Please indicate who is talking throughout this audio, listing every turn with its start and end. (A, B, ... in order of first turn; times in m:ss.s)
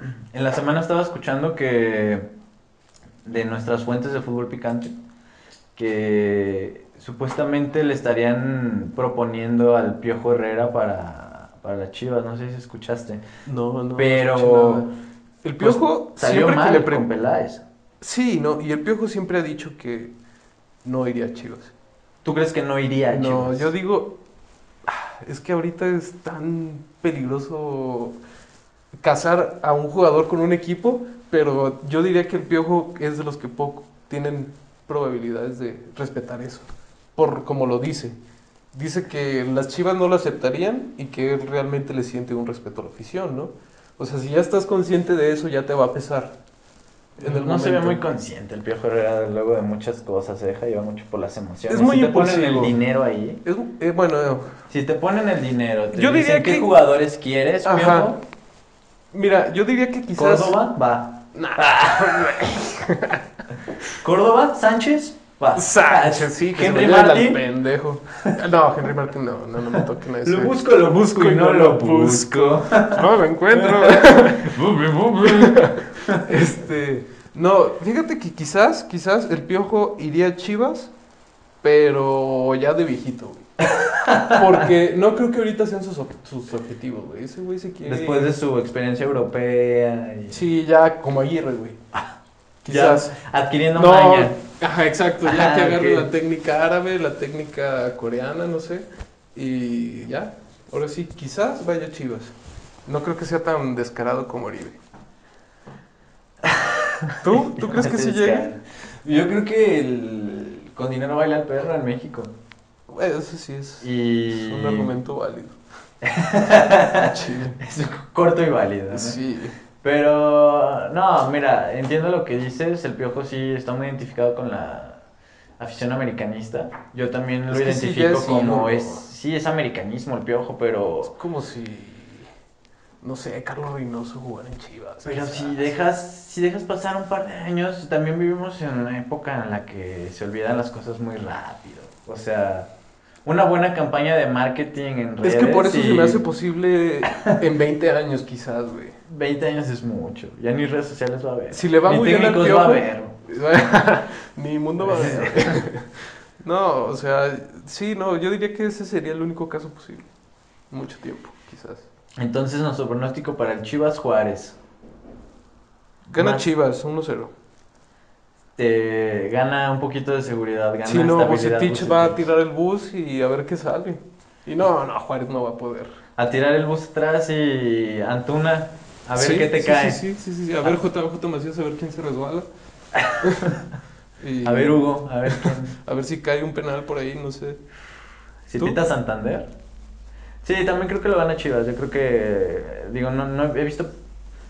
0:00.3-0:02.3 A
0:03.2-0:05.0 A
0:05.8-0:13.2 A
0:13.5-0:14.9 B
0:14.0-0:14.9 A
0:15.4-0:17.1 B
0:15.6-0:17.6 A
0:18.0-0:20.1 B
0:20.8-0:21.7 B
0:22.2-0:23.7 A
0:23.1-0:24.2 B
0:24.8-0:28.2 B
0:29.0-0:38.2 B
0:38.7-0:46.4 B
0:47.2-0:48.0 B
0:47.2-0:53.4 A
0:51.7-0:52.8 B
0:53.4-0:54.5 B
0:54.7-0:58.2 A
0:55.9-0:56.7 B
0:57.6-0:58.1 B
0:59.1-1:00.6 B
1:00.2-1:02.4 A
1:01.3-1:03.2 B
1:03.9-1:07.4 A
1:05.6-1:14.6 B
1:09.8-1:16.3 A
1:15.2-1:20.9 B
1:21.6-1:23.5 B
1:23.7-1:24.7 A
1:24.3-1:28.4 B
1:27.8-1:30.4 A
1:30.3-1:31.8 B
1:32.6-1:33.2 B
1:32.7-1:34.4 A
1:33.8-1:42.4 B
1:35.2-1:36.1 A
1:42.9-1:44.8 B
1:46.4-1:52.3 A
1:47.2-1:48.6 B
1:52.9-1:55.6 B
1:53.8-1:54.9 A
1:56.0-1:59.2 A
1:57.0-1:57.6 B
1:58.9-1:59.6 B
1:59.8-2:05.0 A
2:05.6-2:11.2 A
2:07.5-2:09.0 B
2:11.1-2:12.3 B
2:13.0-2:15.8 B
2:15.0-2:22.7 A
2:23.2-2:26.2 A
2:25.2-2:29.0 B
2:29.1-2:33.2 A
2:31.5-2:40.1 B
2:34.8-2:35.6 A
2:40.7-2:41.9 B
2:42.2-2:44.6 A
2:46.1-2:47.3 B
2:46.2-2:46.5 A
2:48.6-2:52.3 A
2:50.8-2:55.9 B
2:56.2-3:00.0 A
2:59.2-3:02.5 B
3:03.0-3:03.6 A
3:03.2-3:03.6 B
3:04.2-3:07.6 B
3:04.4-3:05.7 A
3:08.5-3:09.5 A
3:10.4-3:13.9 A